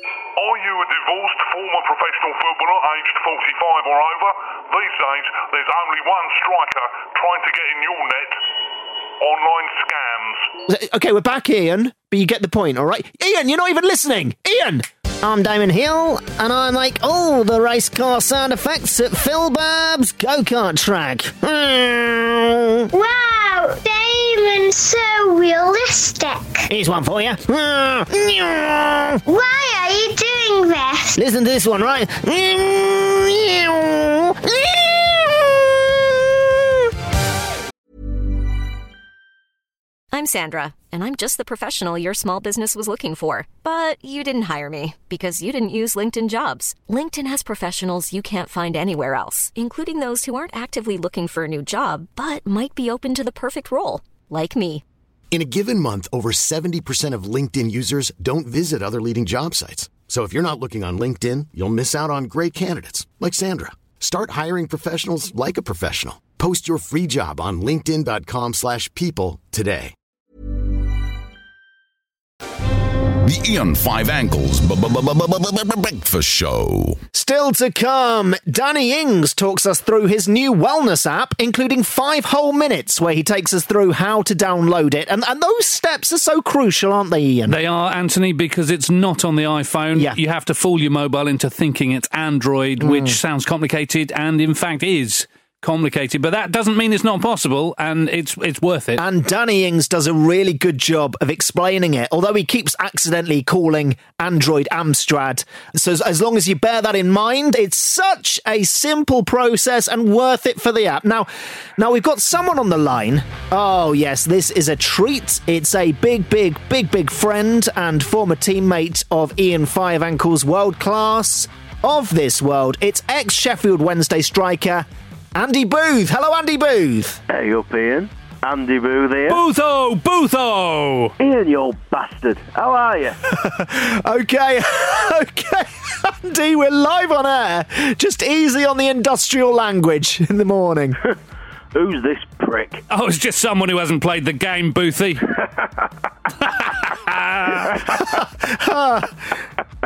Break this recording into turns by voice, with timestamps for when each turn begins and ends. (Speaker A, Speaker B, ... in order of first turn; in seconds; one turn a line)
Speaker A: 0.4-8.3
Speaker A: 9.2-10.4
Speaker B: 10.7-22.9
Speaker C: 22.9-26.7
Speaker B: 26.7-29.2
Speaker C: 29.2-31.1
Speaker B: 31.2-36.0
Speaker D: 40.1-54.8
Speaker E: 55.3-69.9
Speaker F: 73.2-77.0
Speaker B: 77.1-87.6
Speaker G: 87.5-99.0
Speaker B: 89.9-90.2
Speaker B: 92.8-93.2
Speaker B: 99.0-127.2
Speaker H: 127.3-129.1
Speaker G: 129.3-131.1
Speaker H: 131.2-132.9
Speaker B: 133.2-141.0
Speaker H: 141.8-142.7
Speaker G: 142.9-145.3
Speaker G: 146.4-147.9
Speaker B: 148.1-149.2